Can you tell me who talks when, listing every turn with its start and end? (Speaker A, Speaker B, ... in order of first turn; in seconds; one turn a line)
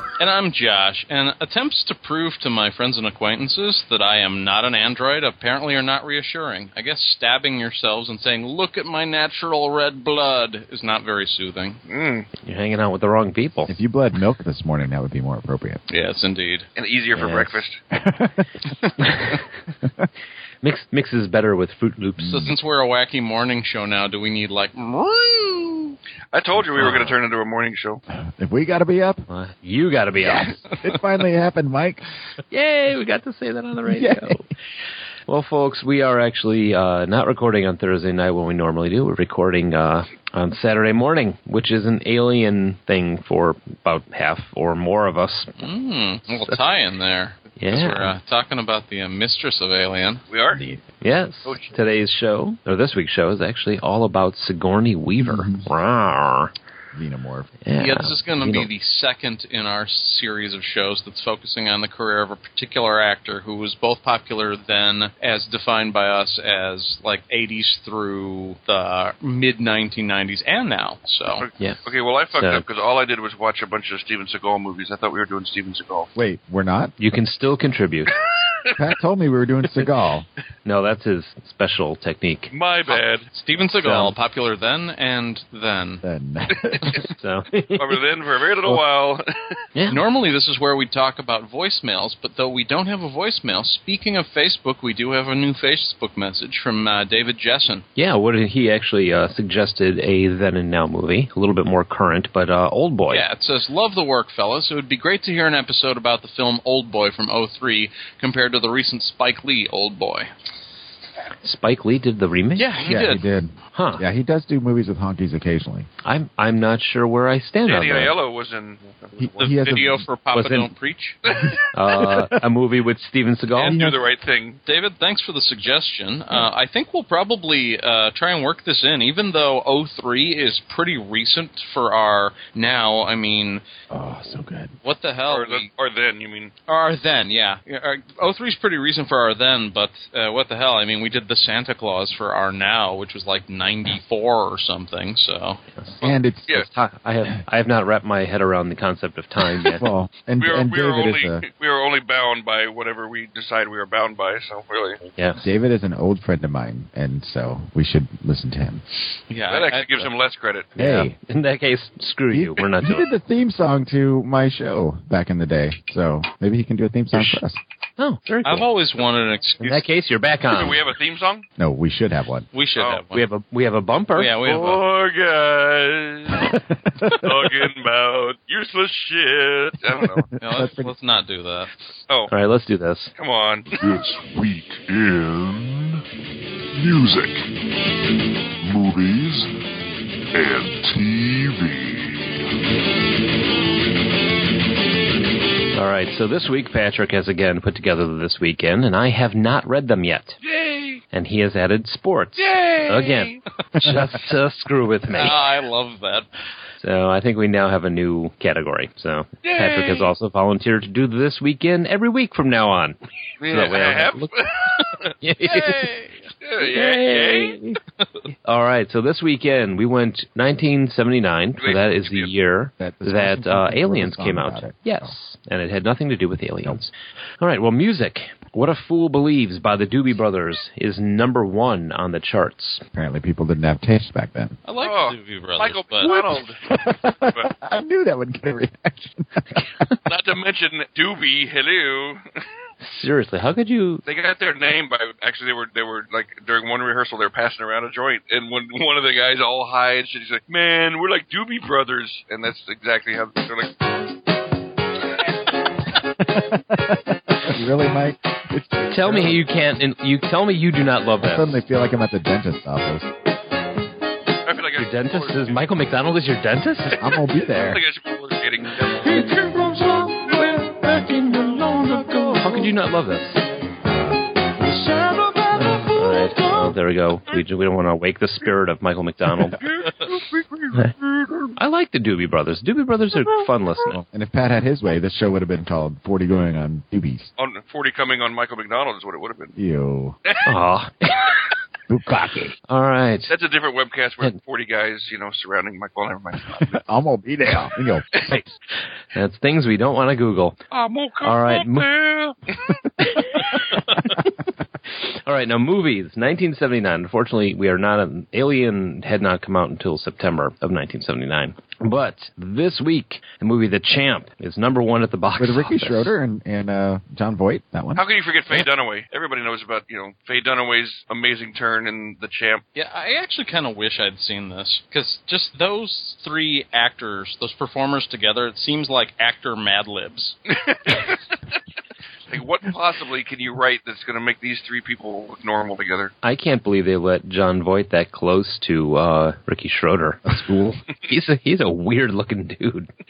Speaker A: 0.2-11.8
Speaker B: 11.9-12.3
Speaker C: 12.4-13.7
Speaker D: 13.7-15.8
Speaker A: 15.9-16.7
Speaker B: 16.8-17.8
Speaker C: 17.1-17.6
Speaker D: 17.9-18.5
Speaker C: 19.0-19.4
Speaker C: 20.6-22.5
Speaker D: 22.2-22.5
Speaker A: 22.3-25.9
Speaker B: 26.3-28.0
Speaker C: 26.8-27.1
Speaker D: 28.1-29.2
Speaker C: 29.3-30.5
Speaker D: 30.2-32.0
Speaker C: 32.5-34.5
Speaker D: 33.9-34.4
Speaker C: 35.3-45.6
Speaker A: 45.6-50.2
Speaker C: 47.6-48.1
Speaker B: 50.3-50.6
Speaker D: 50.5-50.8
Speaker C: 51.0-56.5
Speaker D: 55.2-55.6
Speaker D: 56.9-57.5
Speaker C: 57.6-58.7
Speaker A: 57.7-71.5
Speaker B: 71.4-76.1
Speaker C: 72.3-72.6
Speaker D: 76.2-76.9
Speaker C: 77.0-78.1
Speaker D: 78.8-80.2
Speaker C: 80.6-82.5
Speaker B: 82.5-83.3
Speaker A: 82.9-86.0
Speaker C: 83.8-84.1
Speaker D: 86.0-87.0
Speaker C: 87.2-88.0
Speaker B: 87.8-89.6
Speaker C: 89.7-90.0
Speaker A: 89.9-97.8
Speaker C: 98.0-103.2
Speaker A: 103.1-110.3
Speaker C: 111.4-112.7
Speaker A: 112.6-113.2
Speaker D: 112.8-115.9
Speaker C: 113.7-114.0
Speaker C: 116.0-118.2
Speaker B: 117.7-119.7
Speaker D: 119.2-120.0
Speaker A: 119.4-121.2
Speaker C: 120.3-120.7
Speaker B: 121.2-121.6
Speaker C: 121.7-123.8
Speaker D: 122.0-122.3
Speaker B: 123.5-124.6
Speaker D: 123.7-124.0
Speaker A: 124.7-133.6
Speaker D: 133.9-134.7
Speaker A: 134.8-135.7
Speaker B: 135.3-136.5
Speaker A: 136.7-145.6
Speaker C: 145.8-149.8
Speaker D: 146.0-146.6
Speaker B: 146.0-146.7
Speaker D: 149.8-151.4
Speaker B: 150.4-155.1
Speaker C: 155.2-155.4
Speaker D: 155.4-158.8
Speaker A: 159.3-160.1
Speaker B: 159.5-160.7
Speaker C: 160.8-163.1
Speaker D: 160.8-161.1
Speaker D: 162.3-167.6
Speaker C: 167.1-167.4
Speaker C: 168.0-168.7
Speaker A: 168.4-169.8
Speaker C: 169.6-170.8
Speaker B: 170.5-171.4
Speaker D: 171.6-172.5
Speaker A: 172.5-173.3
Speaker B: 172.8-173.0
Speaker C: 173.1-174.3
Speaker A: 174.1-174.8
Speaker B: 174.4-180.2
Speaker D: 176.3-177.5
Speaker D: 180.0-180.9
Speaker A: 180.4-181.7
Speaker C: 182.3-183.1
Speaker B: 183.2-183.8
Speaker E: 183.7-186.0
Speaker E: 186.7-187.5
Speaker E: 188.6-189.5
Speaker E: 190.3-192.4
Speaker C: 195.7-200.4
Speaker B: 200.4-201.0
Speaker C: 201.1-205.4
Speaker B: 202.4-203.3
Speaker A: 205.1-206.2
Speaker C: 206.8-214.3
Speaker B: 209.4-210.1
Speaker B: 213.4-214.7
Speaker C: 215.2-215.9
Speaker A: 215.4-216.1
Speaker B: 216.4-217.6
Speaker C: 216.6-217.8
Speaker C: 218.4-232.8
Speaker B: 221.6-222.3
Speaker D: 222.8-225.1
Speaker D: 232.9-234.6
Speaker A: 234.6-236.2
Speaker B: 234.8-236.6
Speaker D: 236.0-239.9
Speaker B: 237.2-237.5
Speaker B: 240.1-242.2
Speaker C: 242.8-244.0
Speaker B: 244.1-253.7
Speaker D: 256.0-259.4
Speaker C: 258.9-261.6
Speaker D: 261.3-263.1
Speaker B: 264.4-265.7
Speaker C: 264.8-267.2
Speaker D: 267.0-267.8
Speaker B: 267.5-269.2
Speaker C: 269.2-273.4
Speaker C: 275.1-279.6
Speaker B: 279.5-281.5
Speaker C: 281.6-284.0
Speaker D: 283.9-287.3
Speaker B: 287.4-289.5
Speaker D: 289.6-290.1
Speaker C: 290.4-291.3
Speaker D: 291.9-292.5
Speaker C: 292.7-293.3
Speaker B: 293.3-296.8
Speaker D: 296.5-298.4
Speaker C: 299.1-300.6
Speaker B: 300.7-302.4
Speaker C: 301.2-301.9
Speaker C: 303.0-303.8
Speaker B: 303.4-303.8
Speaker C: 304.9-316.1
Speaker D: 315.4-318.0
Speaker B: 317.9-322.6
Speaker A: 322.7-330.4
Speaker B: 330.5-331.2
Speaker B: 332.3-336.1
Speaker C: 336.2-340.3
Speaker D: 340.2-340.8
Speaker C: 341.0-342.9